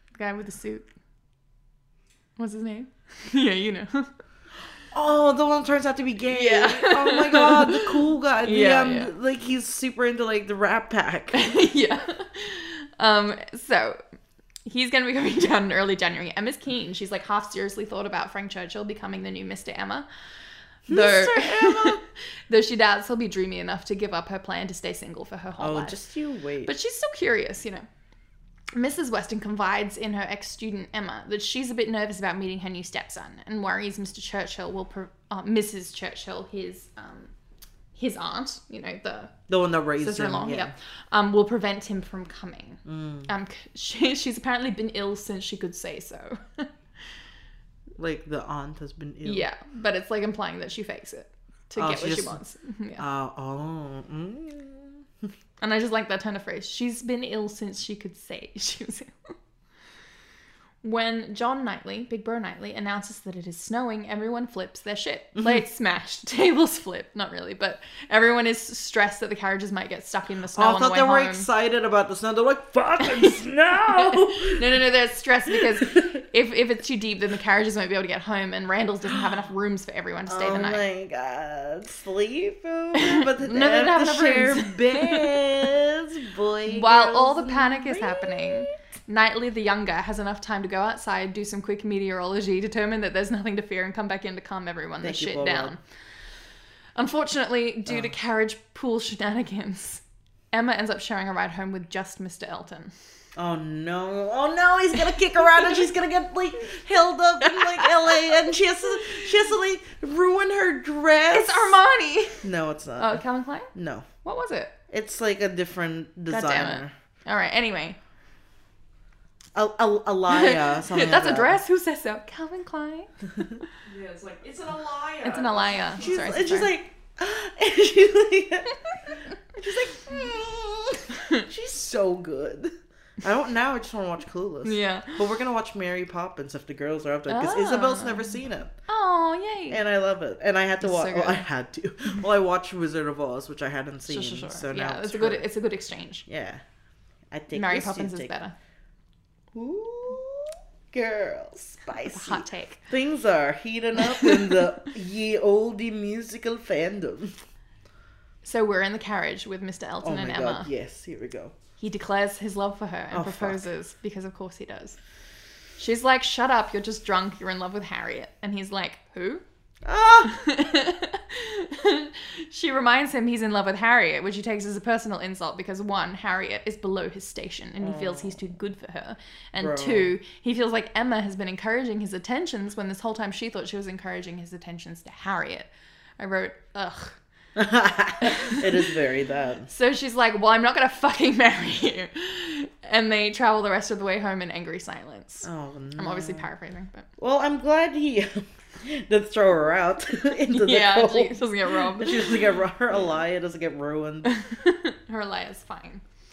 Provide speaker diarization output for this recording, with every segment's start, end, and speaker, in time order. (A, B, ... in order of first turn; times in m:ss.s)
0:00.2-0:00.9 A
0:02.4-0:04.1 A
0:04.9-0:11.4 B
0:06.3-0:09.1 A
0:11.3-0:14.0 A
0:14.6-0:20.1 A
0:20.8-0:26.0 A
0:20.9-0:22.0 B
0:25.6-0:26.7 B
0:26.6-0:27.8 A
0:28.7-0:37.3 A
0:37.9-0:39.4 A
0:39.5-0:40.7 B
0:40.0-0:46.7 A
0:42.8-0:43.3 B
0:48.0-0:49.4 B
0:49.2-0:53.0 A
0:51.8-0:52.4 B
0:53.0-0:55.0 B
0:55.6-0:59.3 A
1:00.8-1:11.5 A
1:10.5-1:14.6 B
1:13.8-1:20.8 A
1:15.5-1:15.8 B
1:20.3-1:28.7 B
1:23.0-1:25.6 A
1:26.6-1:35.8 A
1:35.0-1:35.7 B
1:36.9-1:42.9 A
1:43.4-1:51.8 B
1:47.4-1:48.4 A
1:51.3-1:52.4 A
1:52.4-1:53.2 B
1:53.0-1:54.7 A
1:53.7-1:54.1 B
1:54.9-1:56.9 B
1:56.3-1:58.0 A
1:59.5-2:01.6 B
2:00.3-2:03.6 A
2:03.8-2:06.4 C
2:05.2-2:06.7 A
2:06.0-2:18.7 B
2:14.6-2:15.2 A
2:17.3-2:18.4 A
2:18.9-2:19.8 A
2:19.7-2:25.5 B
2:20.8-2:21.4 A
2:24.1-2:26.2 A
2:26.2-2:26.6 B
2:27.3-2:28.3 B
2:27.5-2:28.5 A
2:29.5-2:37.4 B
2:32.1-2:32.8 A
2:38.4-2:40.7 A
2:40.0-2:41.6 B
2:41.8-2:45.0 A
2:43.1-2:43.6 B
2:45.8-2:49.4 A
2:49.8-2:50.5 B
2:50.2-3:05.7 A
2:57.8-2:58.4 B
2:59.6-3:00.1 B
3:06.2-3:07.2 A
3:07.6-3:09.7 B
3:08.2-3:08.8 A
3:09.7-3:17.1 A
3:15.4-3:16.5 B
3:17.2-3:24.3 B
3:20.5-3:23.1 A
3:24.2-3:26.0 A